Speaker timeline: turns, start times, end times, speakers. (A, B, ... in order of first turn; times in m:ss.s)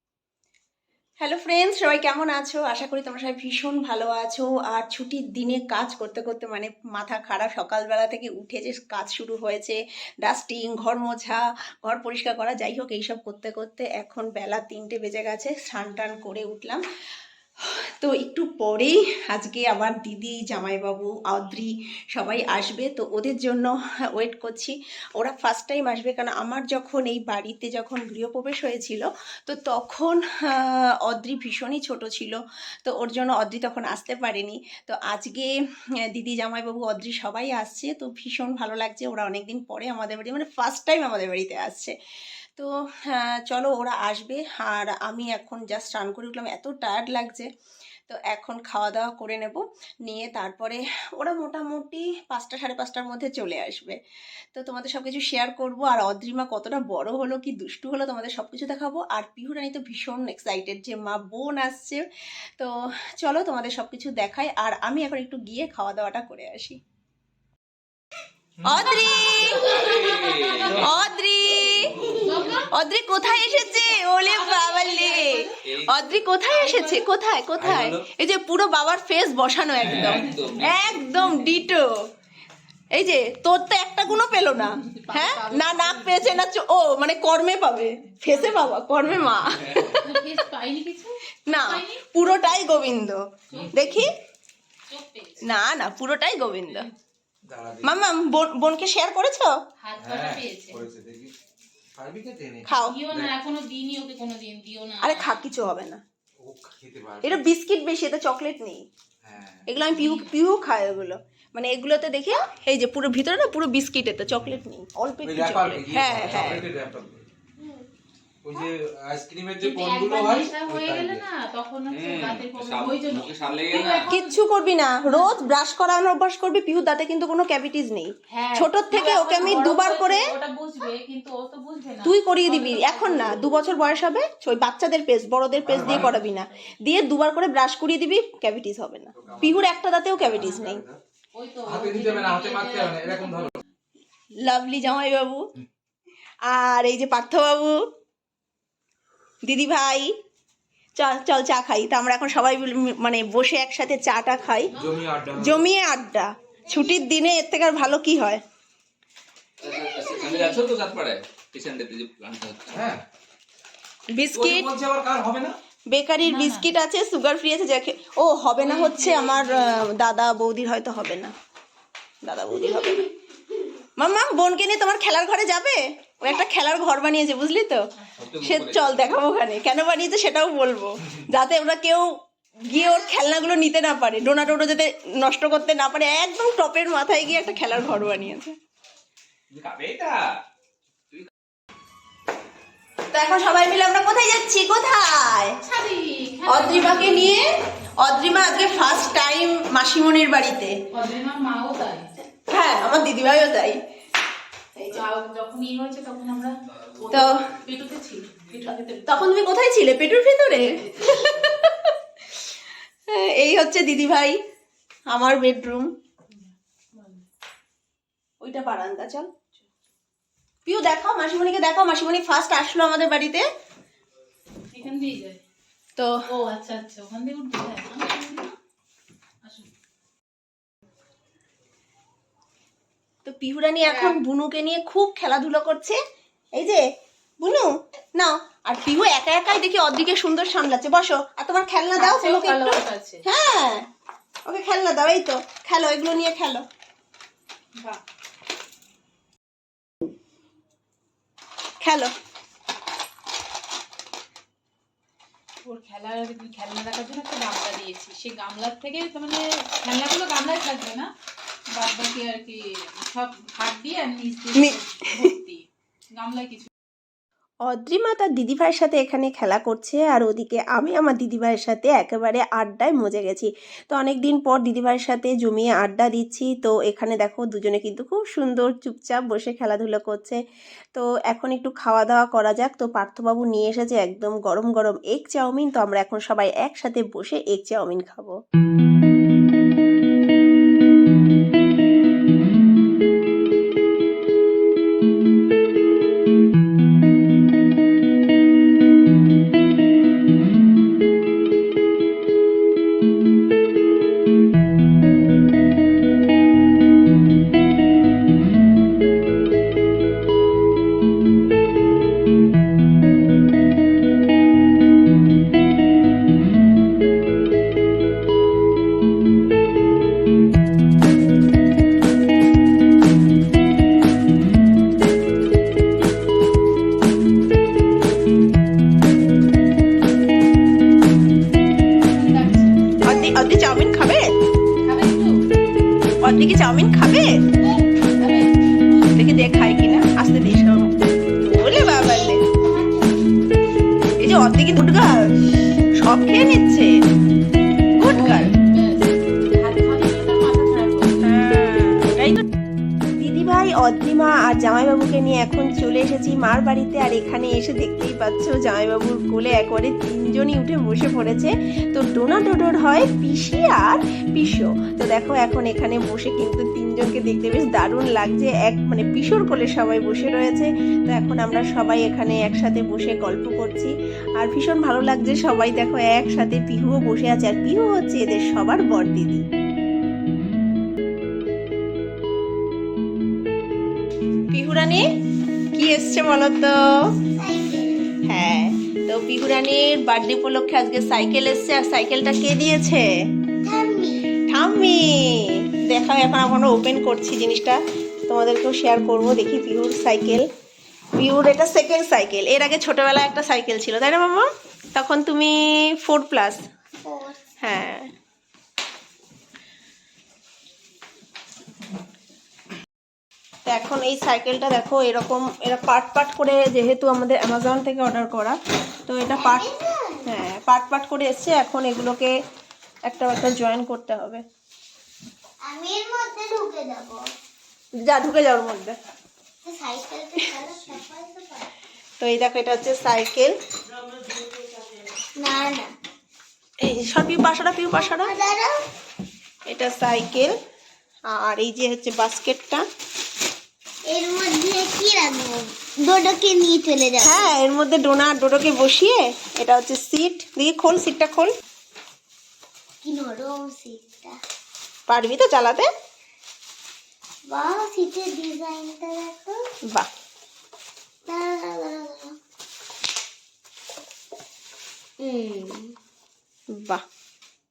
0:01.2-0:16.8 A
0:18.0-0:35.5 A
0:36.1-0:41.9 A
0:42.6-0:47.5 A
0:48.1-0:54.0 A
0:54.5-1:02.0 A
1:02.6-1:06.8 A
1:08.6-1:08.9 B
1:08.6-1:09.8 A
1:08.9-1:10.9 C
1:09.3-1:10.9 D
1:10.8-1:11.9 A
1:11.6-1:12.6 D
1:11.9-1:12.4 E
1:12.1-1:12.7 C
1:12.7-1:21.9 A
1:13.5-1:15.6 C
1:15.6-1:15.9 D
1:16.5-1:17.0 C
1:17.6-1:18.0 B
1:19.8-1:21.6 D
1:19.9-1:20.4 B
1:22.9-1:30.1 A
1:24.6-1:26.4 C
1:28.1-1:28.7 C
1:30.0-1:32.8 C
1:31.5-1:34.1 A
1:33.5-1:34.1 C
1:34.9-1:35.4 C
1:35.4-1:36.9 A
1:36.7-1:37.0 C
1:37.4-1:38.0 B
1:37.8-1:39.5 A
1:39.8-1:40.8 C
1:40.0-1:41.3 B
1:42.0-1:43.3 B
1:42.6-1:43.0 A
1:42.8-1:45.4 C
1:45.0-1:46.0 A
1:46.4-1:47.4 B
1:47.2-1:48.8 A
1:49.2-1:49.7 B
1:49.6-1:56.6 A
1:49.9-1:50.3 C
1:55.2-1:57.2 B
1:57.6-1:57.9 E
1:58.4-2:01.2 B
1:59.6-2:04.4 C
2:01.9-2:04.1 D
2:04.1-2:10.2 A
2:05.0-2:05.4 C
2:08.3-2:13.5 C
2:12.0-2:20.8 A
2:15.6-2:16.1 B
2:15.9-2:16.6 C
2:19.1-2:21.0 B
2:21.3-2:23.7 C
2:21.6-2:23.6 B
2:24.5-2:25.4 A
2:26.5-2:27.8 A
2:29.4-2:30.1 A
2:31.0-2:34.7 A
2:34.7-2:35.1 C
2:34.7-2:35.6 B
2:35.4-2:38.4 A
2:36.7-2:37.0 E
2:39.6-2:42.8 D
2:39.6-2:40.7 E
2:42.7-2:43.0 B
2:44.2-2:44.7 A
2:44.3-2:45.6 B
2:45.9-2:51.3 A
2:46.2-2:46.7 C
2:48.6-2:49.8 C
2:52.2-2:53.0 A
2:54.0-2:57.8 A
2:58.2-2:59.1 D
2:58.4-3:02.0 A
3:02.6-3:08.5 A
3:09.5-3:10.2 D
3:13.1-3:15.6 A
3:15.6-3:17.4 C
3:16.5-3:17.5 A
3:18.0-3:20.7 A
3:20.9-3:22.0 C
3:22.5-3:23.8 A
3:24.9-3:29.3 C
3:27.1-3:27.4 A
3:29.0-3:31.9 A
3:30.7-3:31.1 C
3:33.1-3:34.4 A
3:35.1-3:35.9 A
3:36.3-3:37.2 C
3:38.4-3:39.3 A
3:40.6-3:43.4 A
3:44.7-3:45.4 C
3:46.3-3:48.5 C
3:53.2-3:56.0 A
3:53.8-3:54.2 C
3:56.6-3:56.8 A
3:57.4-4:03.8 A
4:02.0-4:03.2 C
4:04.5-4:06.6 A
4:11.8-4:12.1 A
4:15.6-4:21.1 C
4:21.7-4:25.6 C
4:24.6-4:25.2 A
4:26.2-4:26.7 C
4:27.7-4:40.4 A
4:40.9-4:48.4 A
5:32.1-5:32.9 C
5:33.0-5:34.3 A
5:34.8-5:35.3 C
5:36.2-5:37.3 A
5:38.2-5:38.5 C
5:39.1-5:42.4 A
5:41.7-5:43.2 E
5:44.2-5:45.3 A
5:46.0-5:46.9 A
5:47.9-5:48.5 A
5:48.1-5:51.2 C
5:51.2-5:52.4 A
5:53.2-6:19.4 A
6:24.5-6:25.0 A
6:25.7-6:26.7 A
6:27.4-6:28.1 E
6:28.2-6:33.0 A
6:33.6-6:34.2 E
6:34.5-6:40.4 A
6:41.2-6:46.6 A
6:47.0-6:47.4 E
6:47.6-6:48.1 A
6:53.6-6:59.6 A
6:59.3-7:00.3 E
7:00.2-7:02.3 A
7:03.0-7:04.4 A
7:05.6-7:07.3 E
7:08.0-7:09.0 A
7:09.6-7:11.7 E
7:12.2-7:13.5 A
7:15.4-7:15.9 E
7:16.8-7:18.3 A
7:17.9-7:18.8 E
7:19.7-7:20.5 A
7:21.3-7:22.8 A
7:24.1-7:27.5 E
7:27.2-7:31.5 A
7:33.0-7:34.4 E
7:35.1-7:35.8 A
7:37.5-7:39.6 E
7:41.3-7:42.3 E
7:45.2-7:45.9 E